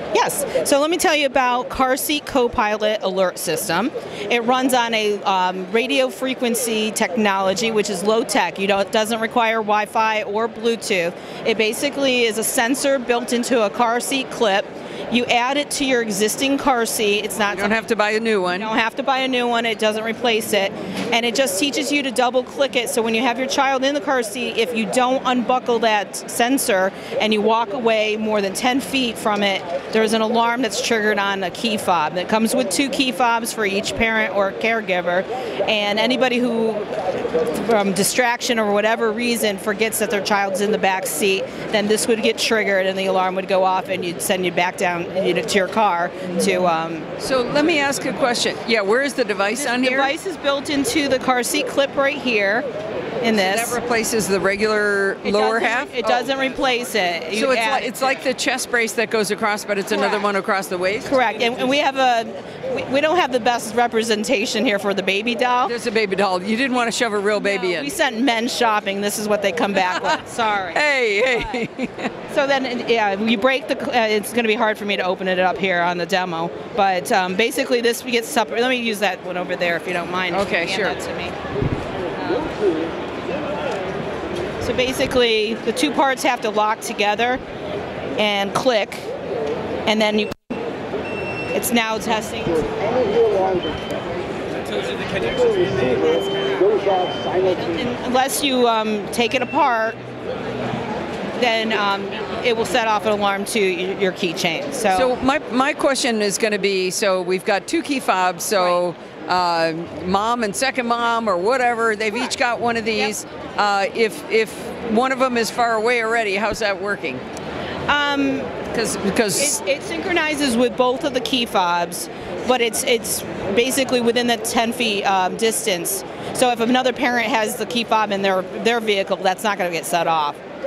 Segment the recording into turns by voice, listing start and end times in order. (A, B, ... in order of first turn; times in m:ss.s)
0:00.1-0:17.8 A
0:17.5-0:18.7 B
0:18.5-0:47.1 A
0:47.2-0:50.1 B
0:49.5-0:52.7 A
0:53.2-0:53.8 A
0:53.3-0:56.3 B
0:55.2-0:58.2 A
0:57.3-1:01.2 B
0:59.9-1:00.2 A
1:01.1-1:05.7 A
1:05.6-1:07.9 B
1:07.4-1:10.8 A
1:09.8-1:10.2 B
1:10.7-1:12.1 B
1:12.3-1:21.4 A
1:20.3-1:21.0 B
1:22.2-1:22.5 A
1:24.6-1:27.4 A
1:28.2-1:29.1 A
1:29.9-1:30.4 A
1:31.5-1:32.8 A
1:35.2-1:40.0 A
1:41.4-1:45.1 A
1:44.9-1:57.2 B
1:57.9-1:58.6 A
1:58.7-1:59.6 B
1:59.4-2:10.4 A